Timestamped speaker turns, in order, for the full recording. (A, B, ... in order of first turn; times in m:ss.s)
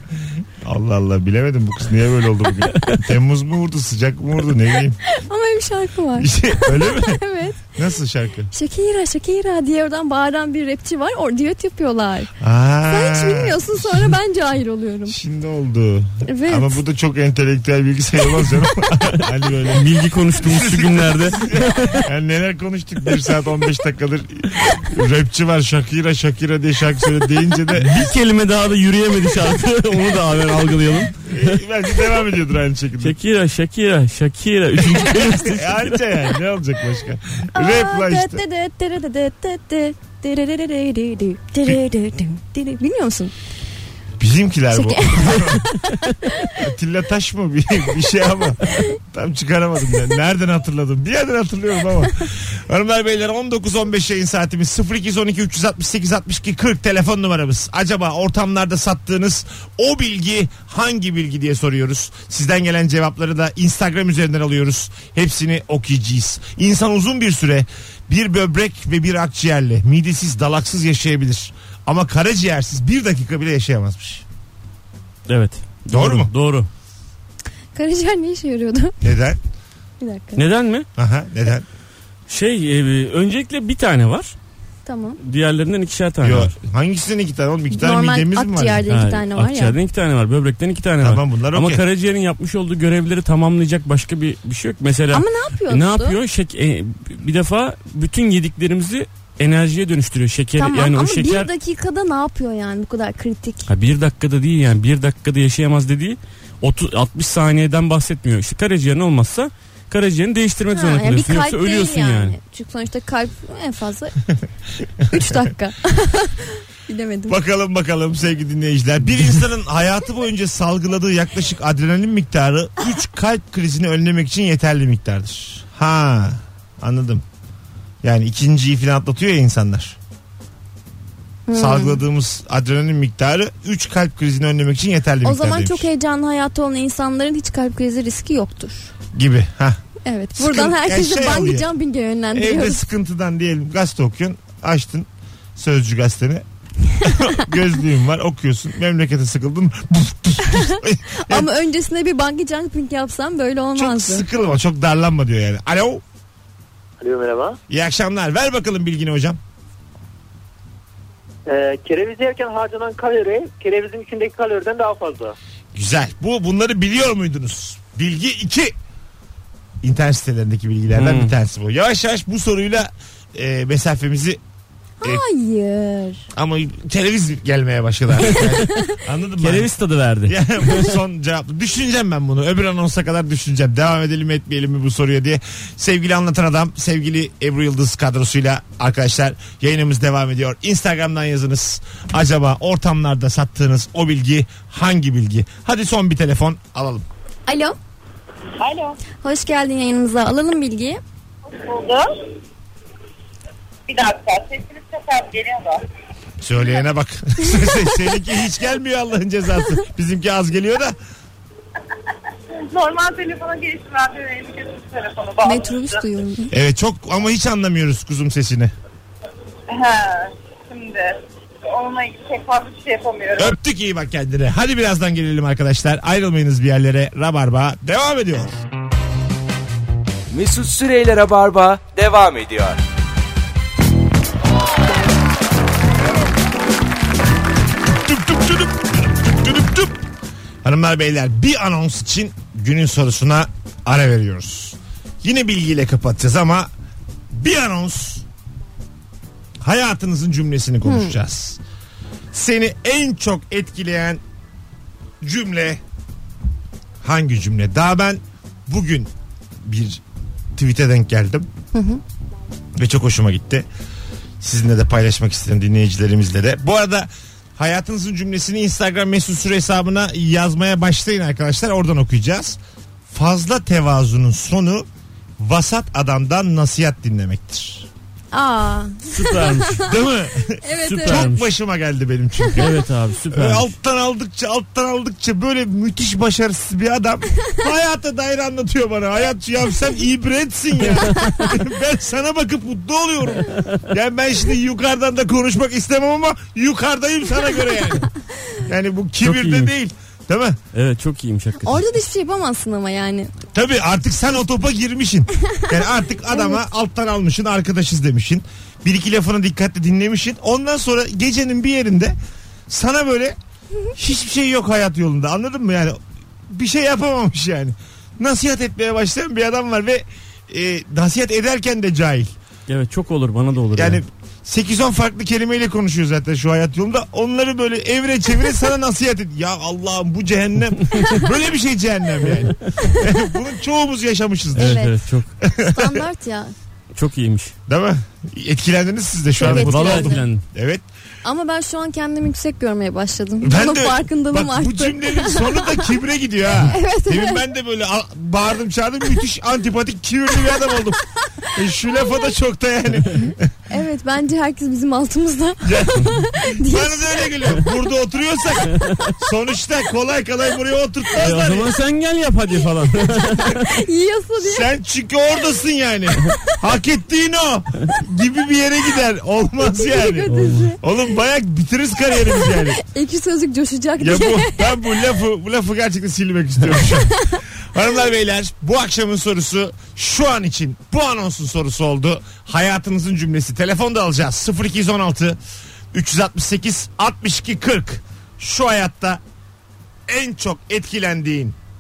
0:00.6-0:05.0 A
0:05.1-0:07.7 B
0:06.2-0:07.2 A
0:07.7-0:08.5 A
0:08.5-0:12.3 B
0:12.4-0:14.1 A
0:12.9-0:15.2 B
0:15.1-0:28.1 A
0:16.3-0:16.8 B
0:19.7-0:22.1 C
0:27.7-0:31.6 C
0:31.2-0:33.2 A
0:33.0-0:36.0 C
0:34.9-0:38.4 A
0:37.6-0:43.3 B
0:44.2-0:45.7 A
0:44.7-0:46.5 B
0:46.5-1:14.2 A
1:15.3-1:16.7 C
1:15.9-1:16.3 A
1:17.8-1:19.0 B
1:19.0-1:19.4 A
1:20.0-1:20.4 B
1:20.4-1:20.9 C
1:21.0-1:21.7 A
1:22.3-1:24.3 C
1:24.9-1:25.2 B
1:25.2-1:26.5 C
1:26.2-1:28.8 A
1:27.7-1:29.8 B
1:28.9-1:41.5 C
1:31.0-1:31.8 A
1:35.1-1:36.2 B
1:40.6-1:43.7 B
1:43.7-1:52.4 C
1:50.7-1:54.2 B
1:55.1-1:57.4 B
1:57.3-2:07.2 A
2:08.0-2:10.0 A
2:11.5-2:12.0 B
2:11.5-2:15.9 A
2:15.2-2:18.9 B
2:19.1-2:19.8 A
2:20.0-2:22.8 B
2:20.4-2:21.7 A
2:22.3-2:26.4 A
2:27.0-2:31.5 A
2:30.4-2:34.3 B
2:33.8-2:36.0 A
2:37.0-2:37.6 D
2:37.7-2:39.4 A
2:41.5-2:45.4 D
2:45.7-2:48.8 A
2:49.8-2:54.4 A
2:51.0-2:51.3 C
2:55.0-2:56.3 B
2:56.3-2:59.7 A
2:58.2-2:58.6 C
2:59.4-3:00.9 C
3:00.3-3:17.1 A
3:17.5-3:17.8 B
3:18.6-3:19.0 E
3:19.2-3:21.0 B
3:21.5-3:22.1 E
3:23.9-3:25.8 E
3:26.4-3:31.0 A
3:32.7-3:36.0 E
3:35.4-3:36.5 B
3:36.5-3:38.7 A
3:39.7-3:43.6 E
3:43.4-3:48.6 A
3:50.3-3:52.8 F
3:57.9-4:00.0 A
4:00.6-4:06.7 A
4:07.3-4:08.2 A
4:09.6-4:11.6 A
4:10.8-4:11.2 B
4:12.3-4:14.2 A
4:15.2-4:15.8 A
4:17.0-4:19.1 A
4:19.6-4:20.0 A
4:20.6-4:21.5 A
4:21.7-4:22.0 B
4:22.8-4:23.7 A
4:24.4-4:32.6 A
4:33.1-4:34.9 A
4:35.4-4:37.9 A
4:38.3-4:39.9 B
4:39.1-4:40.0 C
4:39.8-5:00.6 A
4:40.6-4:41.3 B
4:40.8-4:41.5 C
4:42.6-4:43.7 C
4:50.8-4:51.5 C
4:53.5-4:53.8 C
4:59.2-4:59.7 C
5:00.7-5:01.9 C
5:01.6-5:03.3 B
5:03.5-5:12.2 A
5:06.3-5:06.6 B
5:12.7-5:13.4 A
5:13.9-5:22.4 A
5:22.7-5:24.0 C
5:23.8-5:34.9 A
5:34.6-5:34.9 B
5:34.6-5:35.3 C
5:35.4-5:36.0 A
5:35.7-5:36.5 B
5:37.0-5:37.5 C
5:37.7-5:40.8 A
5:39.4-5:40.3 B
5:39.4-5:40.4 C
5:41.2-5:45.9 B
5:43.4-5:53.5 A
5:46.6-5:47.4 B
5:53.7-5:57.2 B
5:55.6-6:01.7 A
6:01.2-6:03.7 C
6:03.5-6:04.7 B
6:04.4-6:12.8 A
6:09.7-6:10.8 B
6:10.3-6:10.7 C
6:12.3-6:14.8 B
6:14.0-6:25.4 A
6:25.9-6:29.2 A
6:30.1-6:31.6 A